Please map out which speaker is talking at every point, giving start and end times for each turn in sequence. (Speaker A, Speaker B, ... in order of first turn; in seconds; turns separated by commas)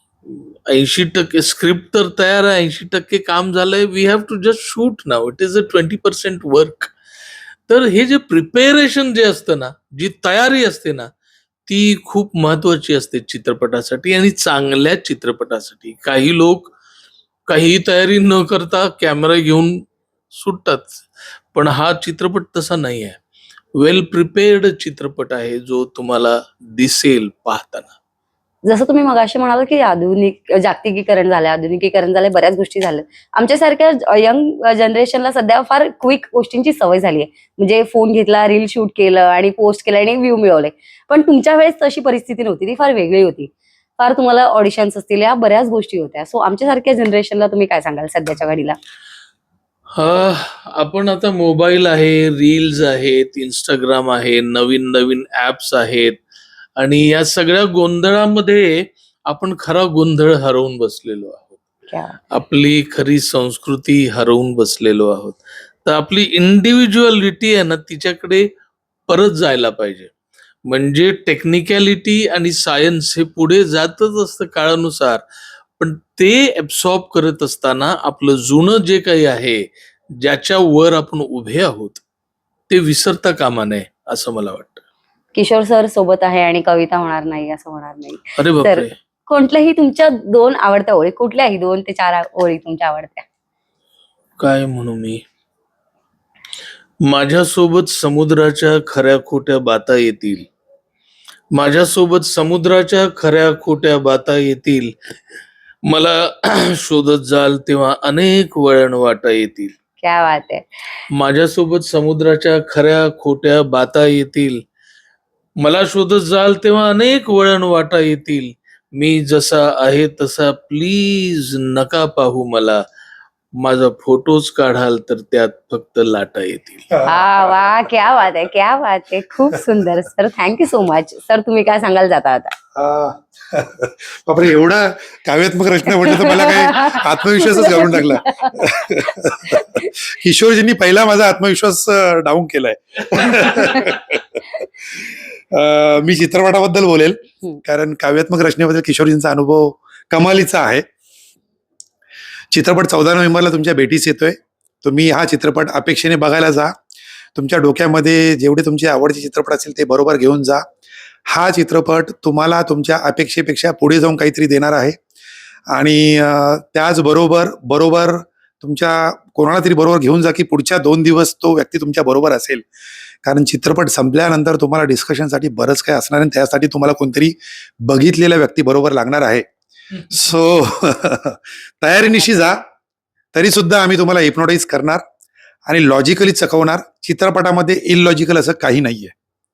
Speaker A: 0.3-6.9, Speaker A: 7.7-11.1, Speaker A: 11.7-16.7, Speaker A: 17.5-23.2, Speaker A: 23.8-27.9, Speaker B: 28.6-48.8, Speaker A: 49.9-56.2, Speaker A: 56.8-61.6, Speaker B: 61.9-62.2, Speaker A: 62.3-68.5, Speaker A: 69.1-70.1, Speaker A: 70.7-75.2, Speaker A: 75.8-82.0, Speaker A: 82.7-84.8, Speaker B: 85.3-93.2, Speaker A: 88.4-88.9, Speaker A: 94.4-95.2, Speaker A: 97.1-100.5, Speaker A: 101.5-105.1, Speaker A: 105.8-109.7, Speaker B: 110.0-110.7, Speaker A: 111.1-114.6, Speaker A: 115.6-122.8, Speaker A: 123.6-126.9, Speaker C: 126.9-127.9, Speaker B: 127.0-132.6, Speaker C: 132.8-150.8, Speaker B: 135.9-138.7, Speaker B: 139.5-139.9, Speaker C: 152.5-156.7, Speaker C: 157.3-160.7, Speaker C: 161.3-165.0, Speaker C: 165.7-172.7, Speaker C: 173.2-179.4, Speaker C: 180.1-182.6, Speaker C: 183.3-185.0, Speaker C: 185.7-189.1